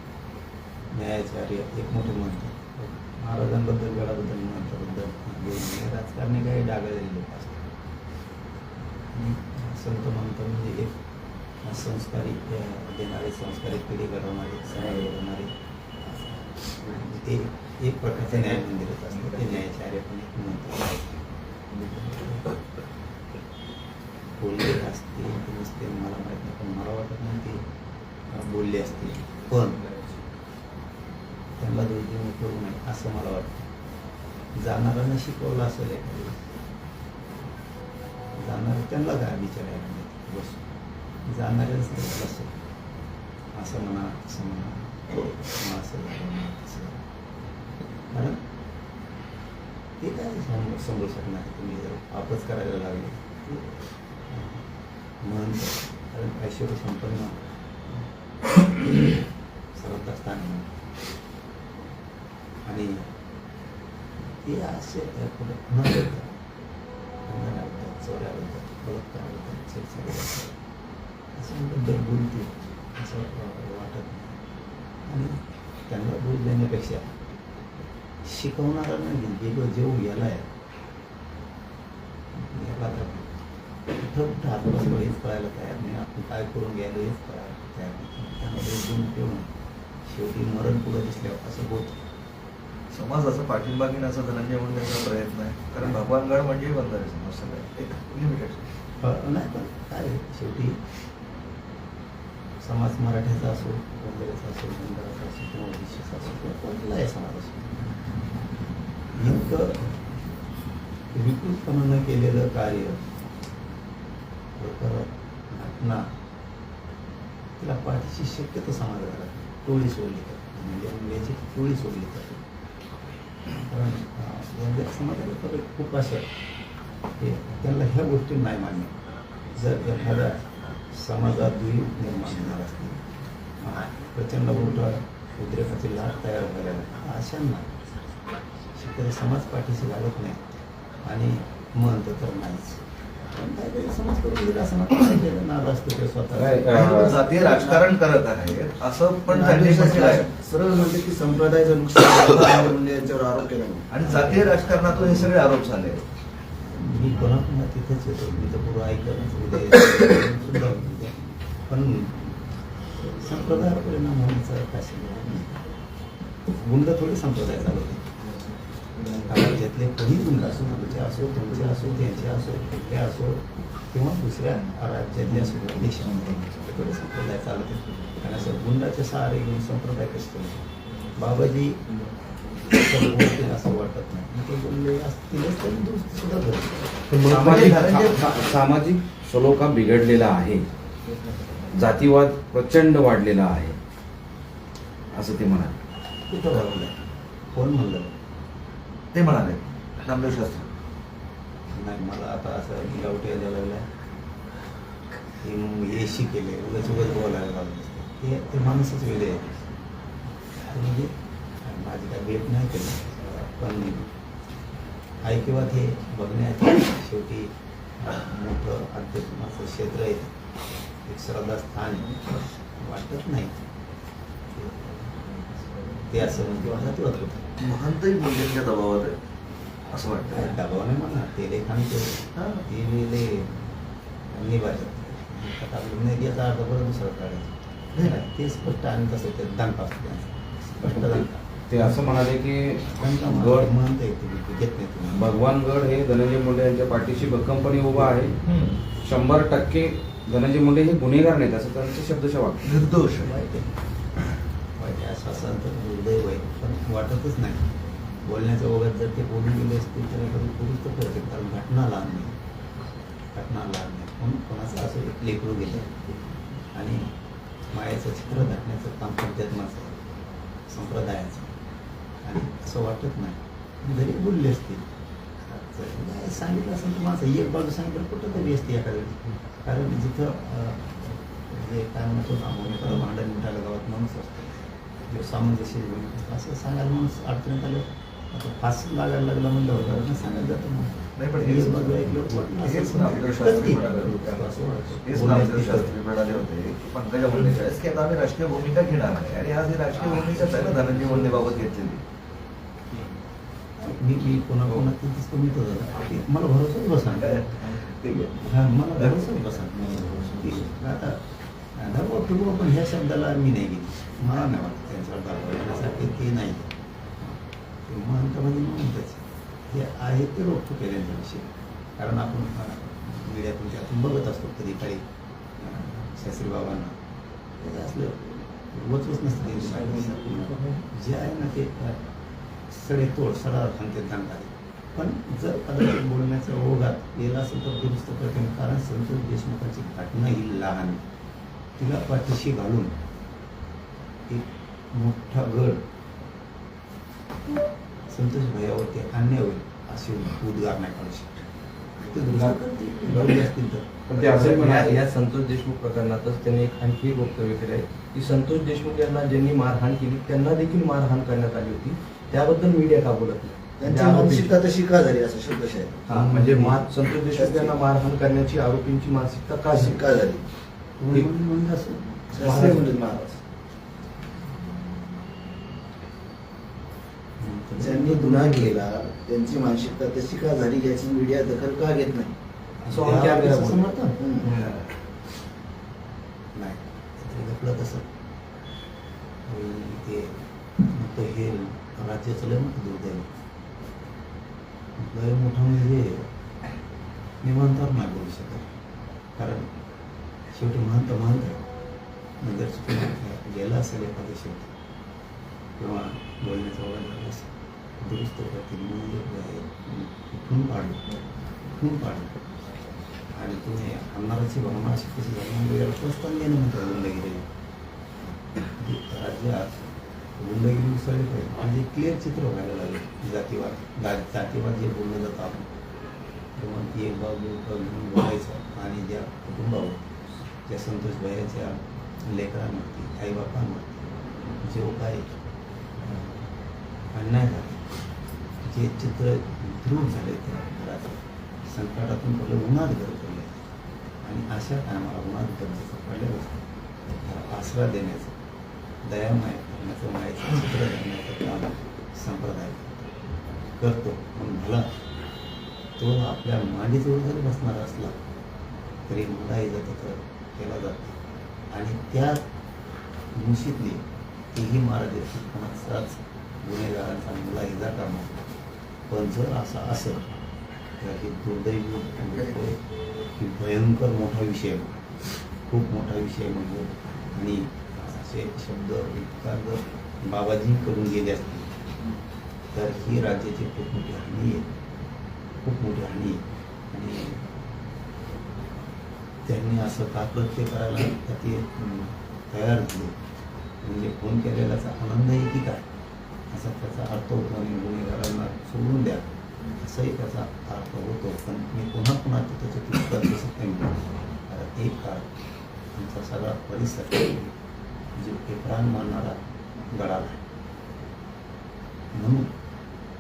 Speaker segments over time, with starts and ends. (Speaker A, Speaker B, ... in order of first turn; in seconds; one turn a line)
Speaker A: 0.9-7.7
Speaker A: 9.1-11.0
Speaker A: 11.6-21.0
Speaker A: 22.0-22.4
Speaker A: 24.4-27.6
Speaker A: 28.3-29.8
Speaker A: 31.6-33.7
Speaker A: 34.6-36.4
Speaker A: 38.4-40.6
Speaker A: 41.3-42.5
Speaker A: 43.5-47.0
Speaker A: 48.1-48.4
Speaker A: 50.0-53.8
Speaker A: 54.3-54.6
Speaker A: 55.2-58.1
Speaker A: 58.6-60.7
Speaker A: 62.7-63.1
Speaker A: 64.4-66.3
Speaker A: 67.3-70.5
Speaker A: 71.3-74.4
Speaker A: 75.1-77.2
Speaker A: 78.2-80.5
Speaker A: 82.3-83.4
Speaker A: 84.0-89.5
Speaker A: 90.1-92.0
Speaker B: 92.9-98.7
Speaker A: 99.0-100.8
Speaker A: 102.6-107.8
Speaker A: 109.1-110.0
Speaker A: 111.1-113.0
Speaker A: 114.6-116.1
Speaker A: 117.6-122.4
Speaker A: 123.5-126.3
Speaker A: 127.2-128.9
Speaker A: 129.5-133.0
Speaker A: 133.6-137.7
Speaker A: 138.8-140.4
Speaker A: 141.0-146.8
Speaker C: 146.4-147.3
Speaker B: 146.7-150.3
Speaker D: 147.4-147.9
Speaker D: 149.3-154.4
Speaker B: 153.9-156.0
Speaker A: 156.6-162.4
Speaker A: 162.9-165.5
Speaker A: 166.5-168.1
Speaker A: 169.2-181.9
Speaker A: 182.6-187.1
Speaker C: 187.1-190.7
Speaker B: 187.2-188.5
Speaker C: 191.7-193.8
Speaker C: 195.1-195.8
Speaker A: 196.3-196.9
Speaker A: 197.5-198.1
Speaker B: 199.1-200.7
Speaker A: 201.7-203.9
Speaker A: 205.4-209.5
Speaker A: 210.5-214.1
Speaker A: 215.2-220.3
Speaker A: 221.1-222.2
Speaker A: 222.8-223.6
Speaker A: 224.6-225.0
Speaker A: 226.0-227.5
Speaker B: 227.6-229.2
Speaker B: 229.9-230.6
Speaker A: 230.3-233.7
Speaker B: 232.4-232.6
Speaker A: 234.3-241.9
Speaker B: 237.9-238.2
Speaker C: 240.8-243.7
Speaker A: 242.8-245.3
Speaker C: 245.1-248.4
Speaker B: 248.4-248.8
Speaker C: 249.0-252.8
Speaker B: 252.7-253.3
Speaker A: 253.2-253.7
Speaker A: 254.8-257.7
Speaker A: 258.2-262.3
Speaker A: 263.3-265.9
Speaker A: 266.7-267.1
Speaker A: 267.7-269.9
Speaker A: 270.7-271.5
Speaker A: 272.2-274.8
Speaker A: 275.4-295.9
Speaker B: 291.2-294.5
Speaker B: 295.0-302.0
Speaker A: 303.8-307.5
Speaker B: 307.1-308.4
Speaker A: 308.4-311.2
Speaker B: 309.0-310.6
Speaker A: 311.8-325.0
Speaker A: 325.6-327.0
Speaker A: 327.6-332.0
Speaker D: 330.0-330.6
Speaker A: 332.7-341.0
Speaker A: 341.8-342.9
Speaker A: 344.3-345.8
Speaker A: 348.1-351.4
Speaker A: 352.0-353.9
Speaker E: 354.1-364.5
Speaker C: 354.1-355.0
Speaker D: 363.8-367.8
Speaker E: 366.1-370.0
Speaker D: 369.7-370.4
Speaker A: 371.0-372.8
Speaker D: 372.3-373.4
Speaker E: 372.4-372.9
Speaker A: 377.4-378.9
Speaker D: 377.8-382.4
Speaker A: 382.8-384.6
Speaker E: 382.9-384.8
Speaker D: 384.2-384.5
Speaker A: 386.6-388.1
Speaker A: 389.5-393.3
Speaker A: 395.0-396.3
Speaker A: 397.4-398.7
Speaker A: 399.4-399.7
Speaker A: 400.5-401.6
Speaker A: 402.4-404.7
Speaker A: 405.8-411.0
Speaker A: 411.7-412.4
Speaker A: 413.4-417.5
Speaker A: 418.8-419.8
Speaker A: 420.4-425.7
Speaker A: 426.6-430.1
Speaker A: 430.7-434.0
Speaker A: 434.6-435.4
Speaker A: 436.0-436.5
Speaker A: 437.1-437.8
Speaker A: 438.6-443.6
Speaker A: 444.2-446.7
Speaker A: 447.2-448.3
Speaker A: 449.0-453.1
Speaker A: 453.8-454.9
Speaker A: 456.0-458.2
Speaker A: 459.1-461.2
Speaker A: 461.7-462.4
Speaker A: 463.4-468.4
Speaker A: 469.1-470.3
Speaker A: 471.0-472.8
Speaker A: 473.4-475.1
Speaker A: 475.7-481.7
Speaker A: 482.7-484.7
Speaker A: 485.6-487.5
Speaker A: 489.5-493.1
Speaker A: 493.8-495.9
Speaker A: 496.5-505.3
Speaker A: 505.9-507.5
Speaker A: 508.2-510.4
Speaker A: 512.1-512.5